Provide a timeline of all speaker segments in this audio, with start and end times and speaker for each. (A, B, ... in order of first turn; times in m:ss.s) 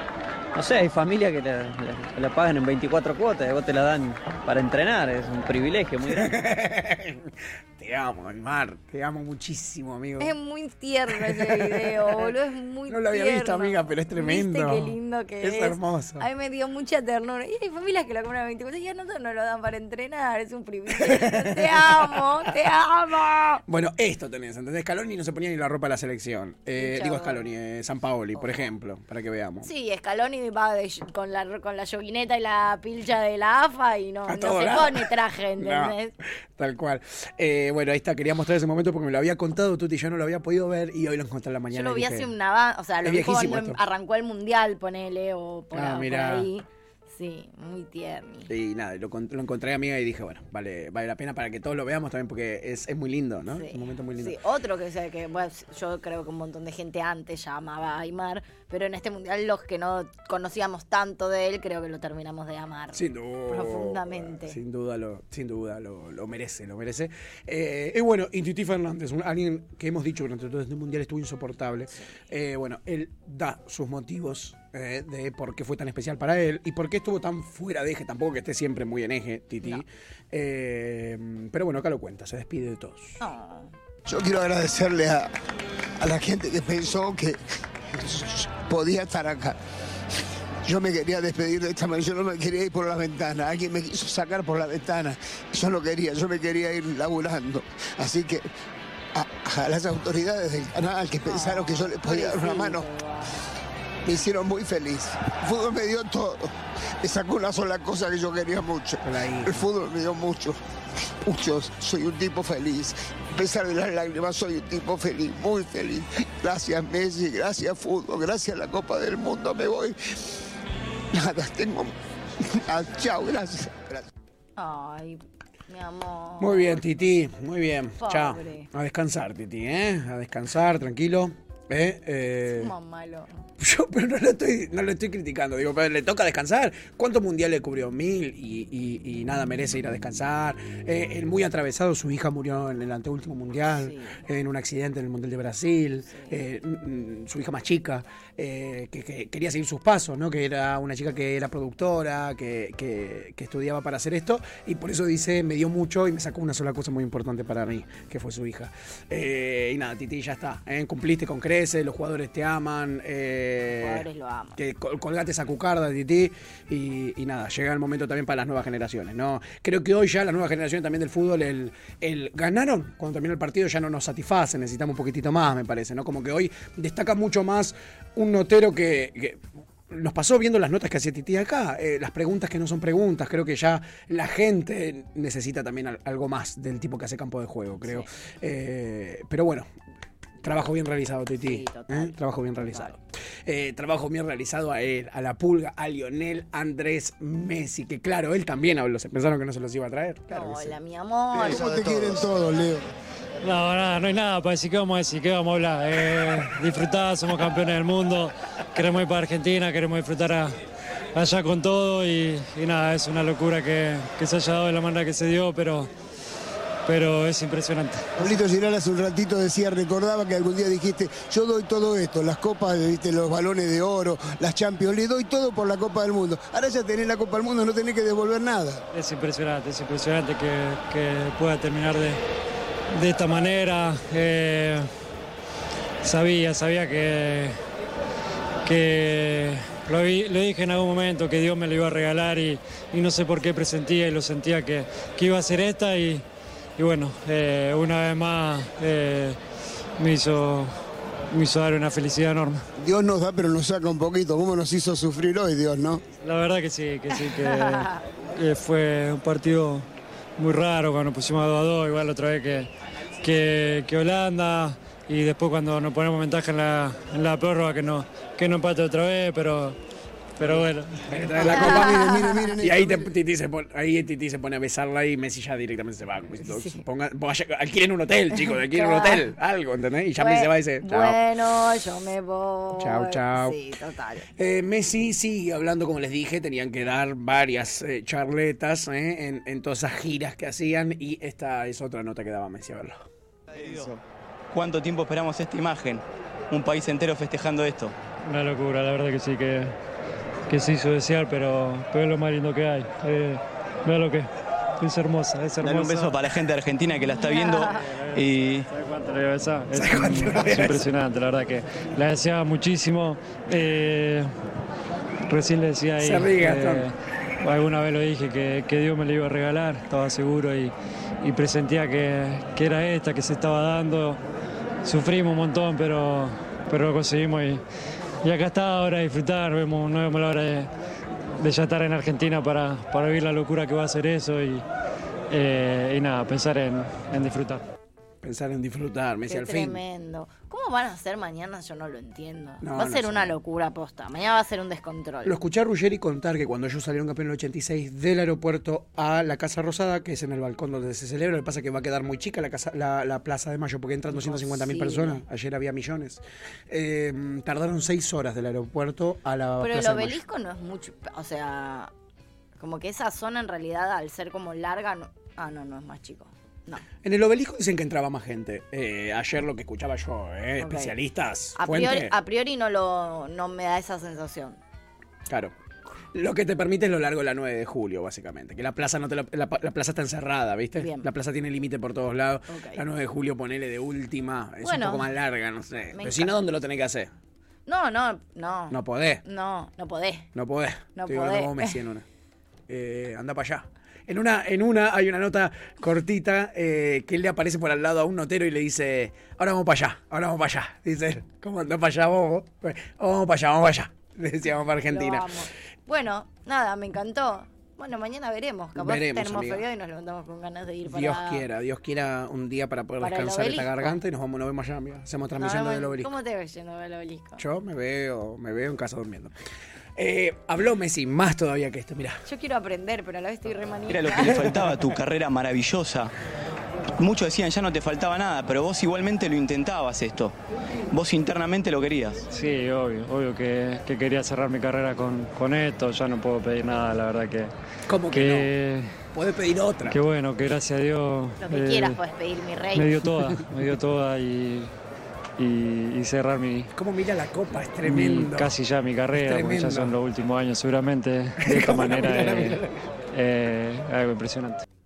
0:00.5-0:06.3 A
0:06.1-0:10.3 B
0:10.2-0:23.6 C
0:11.1-0:12.3 B
0:12.9-0:16.3 B
0:21.0-0:22.2 B
0:23.7-0:29.7 B
0:26.8-0:27.4 C
0:28.4-0:28.7 C
0:29.6-0:36.1 C
0:34.3-0:35.9 B
0:36.6-0:42.3 B
0:41.7-0:48.5 C
0:43.0-0:43.8 B
0:45.7-0:46.5 B
0:48.5-0:54.4 B
0:53.6-1:04.6 C
1:02.9-1:23.2 B
1:23.2-1:23.7 C
1:24.1-1:25.3 D
1:26.0-1:27.4 D
1:27.9-1:29.6 D
1:30.6-1:38.5 D
1:39.1-1:42.8 D
1:41.2-1:43.4 C
1:44.0-1:50.6 D
1:49.0-1:49.6 B
1:51.2-2:00.0 D
2:01.1-2:04.0 D
2:04.6-2:06.8 C
2:06.4-2:12.7 B
2:08.0-2:08.7 C
2:12.5-2:13.4 C
2:13.6-2:44.0 B
2:23.8-2:24.2 C
2:26.1-2:26.4 C
2:43.7-2:44.6 C
2:44.6-3:09.7 B
3:07.8-3:08.1 C
3:10.4-3:20.7 B
3:11.4-3:13.0 C
3:20.3-3:22.3 C
3:21.3-3:22.9 D
3:23.4-3:30.5 E
3:31.1-3:35.9 E
3:36.8-3:38.2 E
3:38.2-3:48.8 D
3:48.9-3:52.2 E
3:52.9-3:54.9 E
3:56.0-3:57.6 E
3:58.6-4:06.2 E
4:06.8-4:09.4 E
4:10.0-4:10.7 E
4:11.3-4:12.6 E
4:12.8-4:16.0 D
4:16.2-4:19.9 E
4:17.2-4:18.0 C
4:20.4-4:22.7 E
4:23.2-4:29.8 E
4:30.4-4:31.0 E
4:31.1-4:41.2 B
4:31.4-4:33.0 D
4:31.4-4:32.5 C
4:36.4-4:36.8 C
4:38.3-4:39.2 C
4:40.2-4:44.3 C
4:42.7-4:43.6 B
4:44.4-4:53.0 B
4:53.6-4:53.9 F
4:54.5-4:57.9 F
4:58.2-4:59.7 E
5:00.5-5:04.3 E
5:04.8-5:06.1 E
5:05.6-5:08.7 F
5:07.2-5:07.8 C
5:07.9-5:08.2 E
5:08.7-5:14.3 E
5:09.7-5:10.8 B
5:15.3-5:24.2 E
5:16.0-5:16.8 B
5:24.8-5:27.6 E
5:28.2-5:30.7 E
5:31.4-5:34.6 E
5:35.3-5:37.6 E
5:38.2-5:39.8 B
5:39.3-5:45.3 C
5:42.6-5:43.3 B
5:45.2-6:00.2 B
5:54.1-5:55.2 C
5:59.6-6:01.9 C
6:02.6-6:06.8 C
6:07.0-6:12.1 B
6:10.6-6:10.9 C
6:11.6-6:14.6 C
6:15.3-6:15.5 B
6:16.1-6:27.1 B
6:20.8-6:21.1 C
6:22.5-6:22.8 C
6:24.6-6:25.1 C
6:25.9-6:26.3 C
6:27.6-6:30.3 C
6:28.7-6:29.2 B
6:30.3-6:32.0 B
6:30.9-6:31.8 C
6:32.7-6:45.3 B
6:44.9-6:51.4 C
6:48.8-6:49.6 B
6:50.8-6:56.1 B
6:53.0-6:54.0 C
6:55.4-6:57.4 C
6:57.4-6:59.3 B
7:00.0-7:02.2 B
7:02.2-7:04.4 C
7:03.9-7:06.1 F
7:07.0-7:10.4 F
7:10.9-7:12.2 F
7:12.3-7:17.5 E
7:17.9-7:18.5 B
7:18.1-7:18.9 E
7:19.1-7:20.0 B
7:19.9-7:22.0 E
7:21.4-7:22.9 C
7:22.7-7:24.7 E
7:25.4-7:26.7 E
7:26.7-7:28.5 B
7:27.8-7:32.6 E
7:29.2-7:29.9 B
7:31.4-7:32.7 B
7:33.1-7:34.6 E